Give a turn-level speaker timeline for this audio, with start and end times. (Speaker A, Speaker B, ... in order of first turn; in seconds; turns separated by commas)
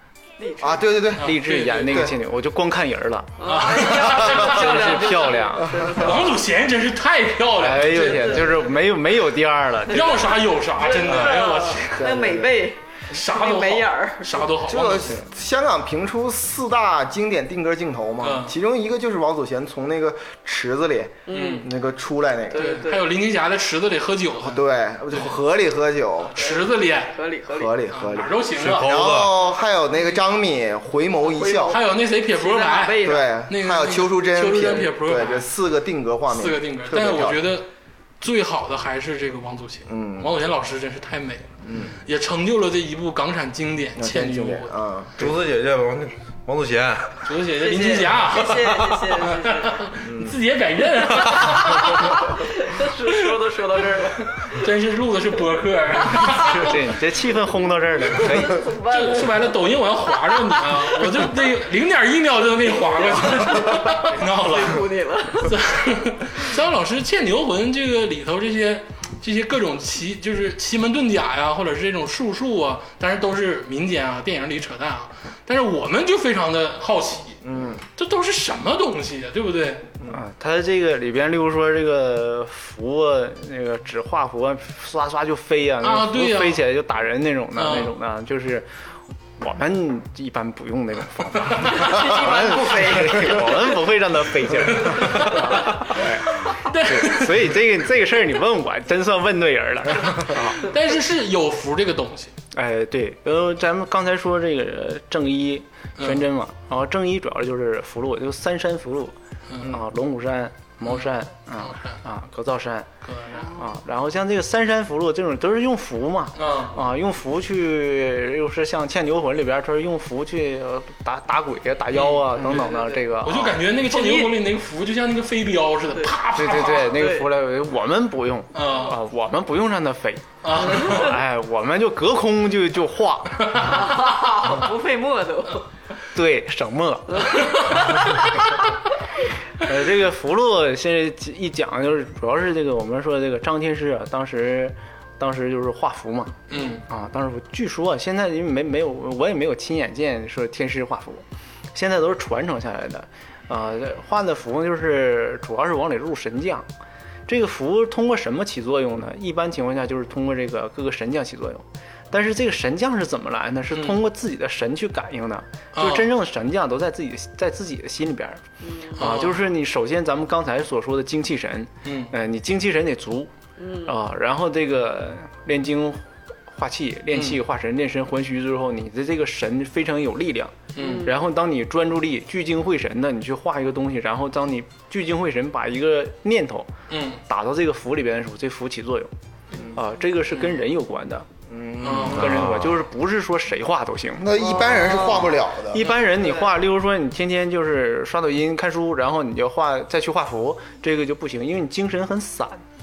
Speaker A: 0.4-0.9, Speaker B: 0.6-2.1, Speaker C: 1.1-2.1, Speaker D: 1.2-3.4, Speaker A: 3.4-6.4, Speaker C: 3.4-5.3, Speaker D: 4.4-5.9, Speaker C: 5.9-8.7, Speaker D: 7.6-10.2, Speaker A: 7.9-8.6, Speaker A: 9.9-14.6, Speaker C: 9.9-12.1, Speaker B: 11.1-11.4, Speaker B: 11.9-12.7, Speaker C: 13.1-15.1, Speaker B: 14.7-22.8, Speaker C: 18.2-18.5, Speaker A: 21.3-21.7, Speaker C: 21.3-21.7, Speaker A: 22.5-23.1, Speaker C: 22.5-25.4, Speaker B: 24.4-26.3, Speaker C: 26.2-27.2, Speaker A: 26.4-27.7, Speaker B: 27.5-31.8, Speaker C: 27.9-29.1, Speaker E: 28.6-29.3, Speaker A: 31.3-33.3, Speaker C: 31.7-35.5, Speaker B: 33.0-37.5, Speaker C: 36.3-37.7, Speaker C: 38.2-41.5, Speaker B: 39.9-40.3, Speaker B: 41.6-41.9, Speaker C: 42.0-44.7, Speaker B: 44.0-45.3, Speaker E: 45.2-47.3, Speaker C: 47.2-52.3, Speaker A: 47.5-49.9, Speaker B: 50.0-50.4, Speaker A: 51.4-54.7, Speaker C: 53.1-53.3, Speaker C: 54.4-56.8, Speaker A: 56.0-56.8, Speaker D: 56.5-58.6, Speaker A: 58.0-59.5, Speaker C: 58.9-64.9, Speaker A: 60.2-61.3, Speaker A: 62.6-65.6, Speaker C: 65.4-77.4, Speaker B: 77.4-77.8, Speaker C: 78.0-79.8, Speaker D: 80.1-88.7, Speaker C: 85.8-86.6, Speaker C: 87.5-87.9, Speaker D: 89.4-100.7, Speaker C: 91.5-92.0, Speaker A: 91.6-93.8, Speaker C: 94.7-97.6, Speaker A: 94.8-95.8, Speaker C: 100.1-102.3, Speaker D: 102.5-112.9, Speaker C: 106.0-106.2, Speaker C: 109.5-109.8, Speaker C: 110.8-112.0, Speaker C: 113.0-113.5, Speaker A: 113.3-113.7, Speaker D: 113.5-123.5, Speaker C: 116.3-116.8, Speaker C: 121.9-122.7, Speaker A: 122.4-123.0, Speaker C: 123.2-127.1, Speaker A: 123.7-124.4, Speaker A: 125.9-127.3, Speaker D: 126.3-133.7, Speaker C: 128.5-128.9, Speaker C: 130.4-131.1, Speaker A: 130.5-131.1, Speaker C: 133.4-133.8, Speaker A: 133.6-135.7, Speaker D: 136.1-137.5, Speaker A: 137.1-138.6, Speaker D: 139.6-151.2, Speaker C: 146.5-146.8, Speaker D: 151.7-156.7, Speaker D: 157.3-168.4, Speaker C: 163.7-164.0, Speaker C: 165.7-166.1, Speaker A: 168.6-169.1, Speaker D: 169.0-173.3, Speaker C: 169.0-169.4, Speaker C: 171.8-172.1, Speaker A: 173.6-173.9, Speaker D: 173.8-186.7, Speaker C: 177.1-177.4, Speaker C: 180.7-181.1, Speaker A: 180.8-181.2, Speaker C: 186.9-187.2, Speaker D: 187.3-189.1, Speaker D: 189.7-191.3, Speaker B: 191.5-192.5, Speaker C: 191.8-192.4, Speaker D: 192.1-194.3, Speaker E: 192.3-192.7, Speaker B: 194.2-195.8, Speaker A: 194.3-196.5, Speaker D: 195.7-202.6